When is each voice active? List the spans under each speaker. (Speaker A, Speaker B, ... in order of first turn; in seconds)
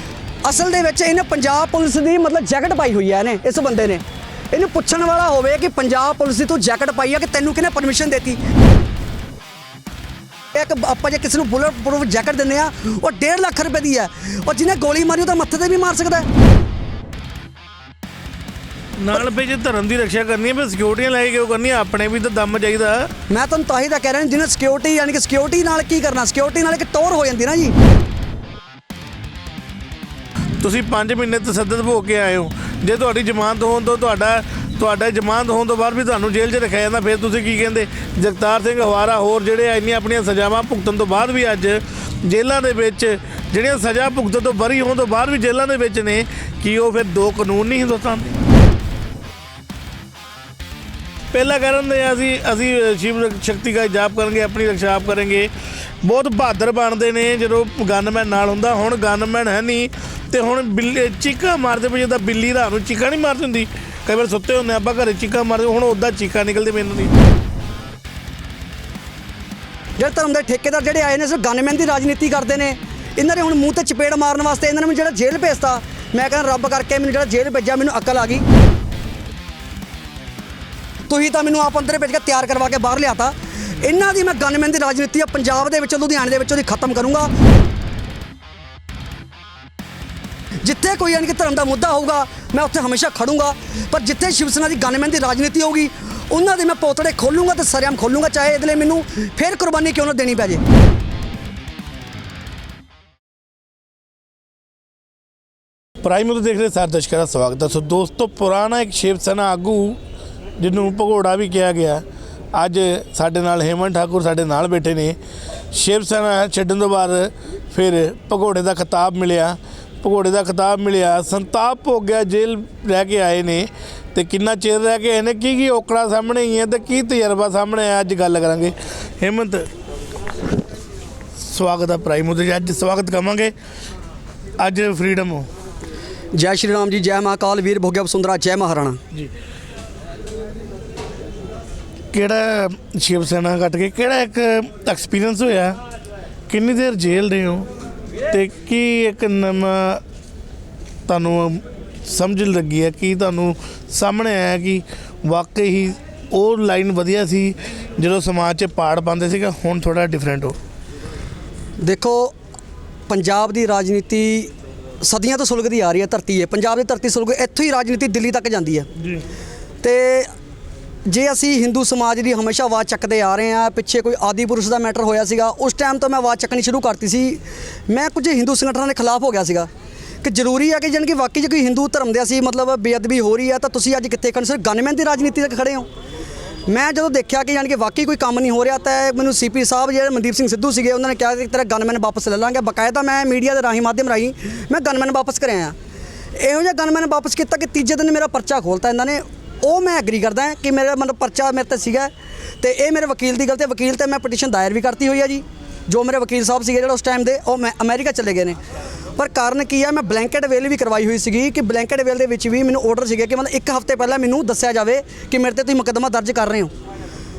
Speaker A: 0.5-8.4, 10.5-16.3, 23.3-27.7, 70.0-78.4, 81.1-87.3, 90.6-100.6, 136.3-139.0, 161.8-162.3, 163.1-168.9, 169.8-170.3, 171.1-179.7, 180.2-185.9, 186.7-195.8, 196.4-208.6, 209.2-216.7
Speaker B: 19.0-23.1, 30.6-48.4, 51.3-55.5, 56.0-67.1, 106.0-110.0, 110.6-115.2, 115.7-129.7, 131.4-133.5, 134.6-135.5, 142.1-145.8, 146.5-147.7, 148.3-150.0, 151.1-160.6